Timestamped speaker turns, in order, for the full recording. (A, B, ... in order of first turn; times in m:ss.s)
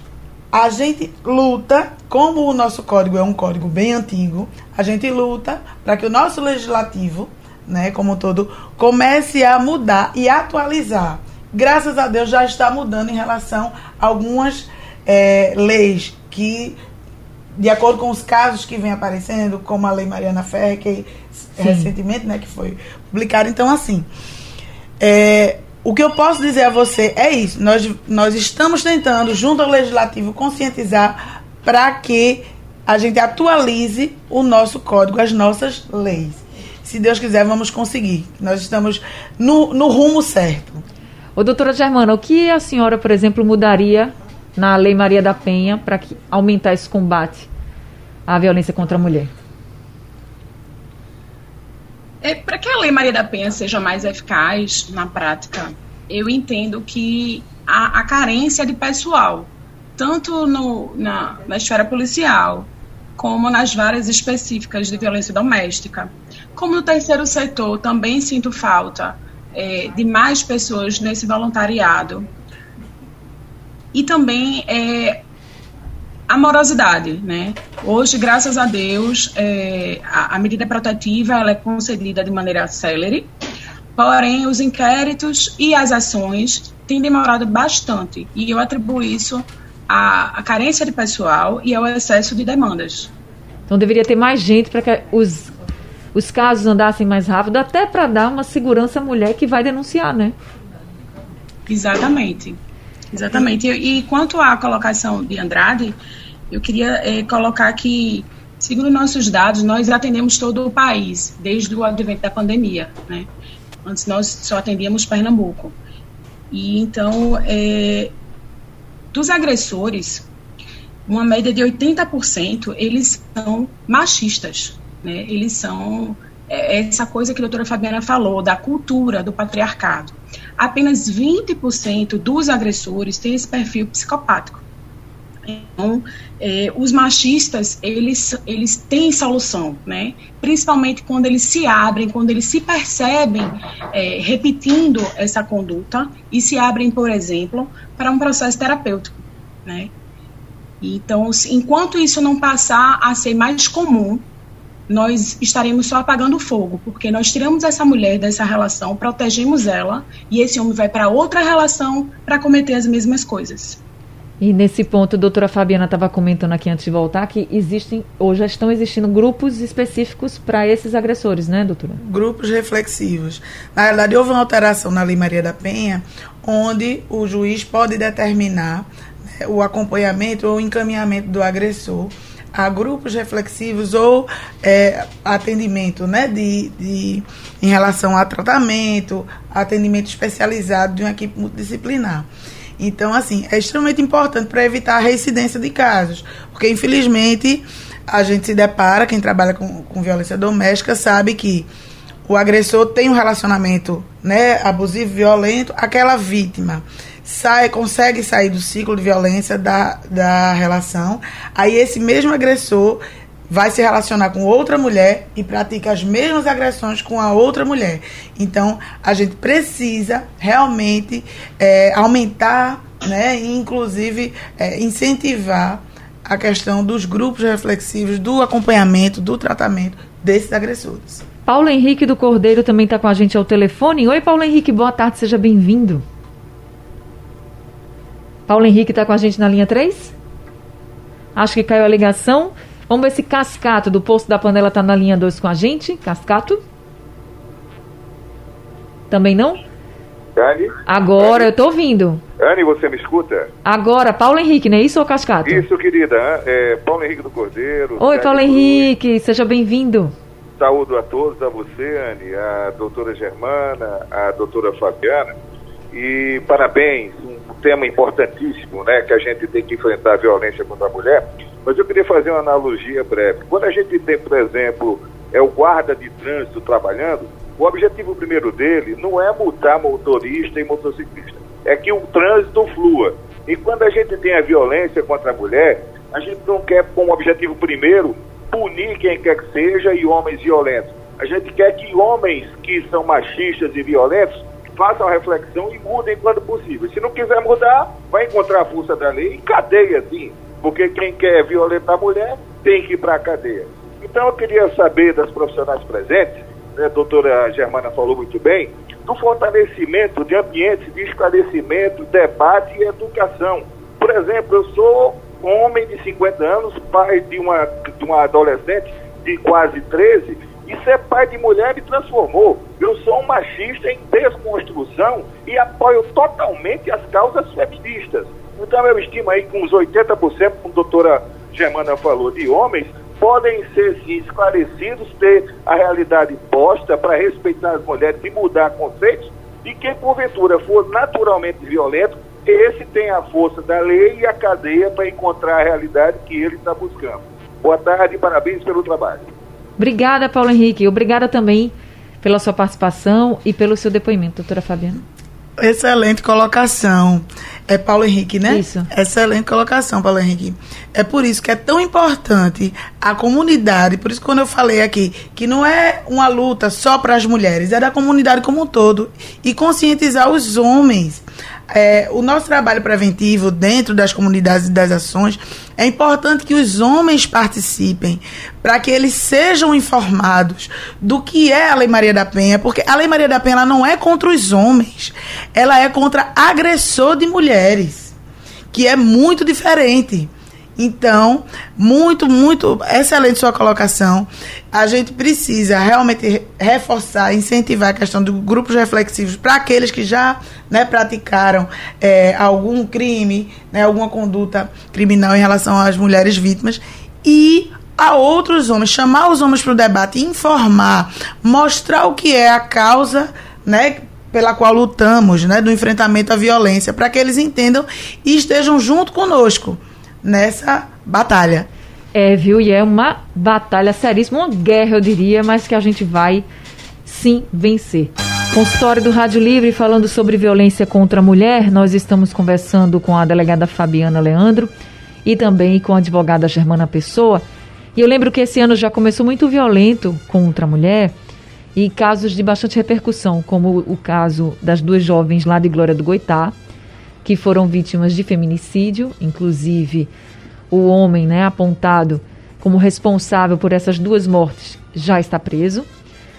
0:00.5-0:16.8 A
0:17.6-0:24.1 A
0:21.6-0:21.9 B
0:25.0-0:40.8 A
0:41.4-0:47.5 B
0:48.3-0:49.3 B
0:52.2-1:12.3 C
1:13.9-1:15.2 C
1:16.3-1:23.3 C
1:24.0-1:33.1 C
1:33.7-1:35.5 B
1:36.1-1:40.3 B
1:41.7-1:42.6 C
1:43.1-1:46.0 C
1:46.5-1:53.3 C
1:53.8-1:55.8 C
1:56.5-1:58.1 C
1:59.1-2:00.3 C
2:01.1-2:14.6 C
2:15.4-2:29.9 C
2:30.8-2:34.2 C
2:34.9-2:43.8 C
2:44.4-2:52.0 B
2:52.0-3:12.3 A
3:12.8-3:21.7 A
3:22.3-3:51.2 A
3:51.4-3:56.0 B
3:58.5-4:00.1 B
4:01.4-4:06.6 B
4:09.1-4:09.6 B
4:10.4-4:11.5 D
4:10.8-4:12.2 B
4:12.4-4:13.5 D
4:13.6-4:15.6 B
4:15.4-4:18.9 D
4:18.0-4:20.1 B
4:20.6-4:25.3 D
4:25.9-5:49.2 D
5:49.8-5:55.0 B
5:55.6-6:28.1 A
5:58.5-5:58.9 B
6:28.7-7:01.7 A
7:02.1-7:06.4 B
7:07.0-7:14.7 B
7:15.2-7:17.4 B
7:18.0-7:21.1 B
7:21.8-7:26.5 B
7:27.2-7:30.1 B
7:30.7-7:35.9 B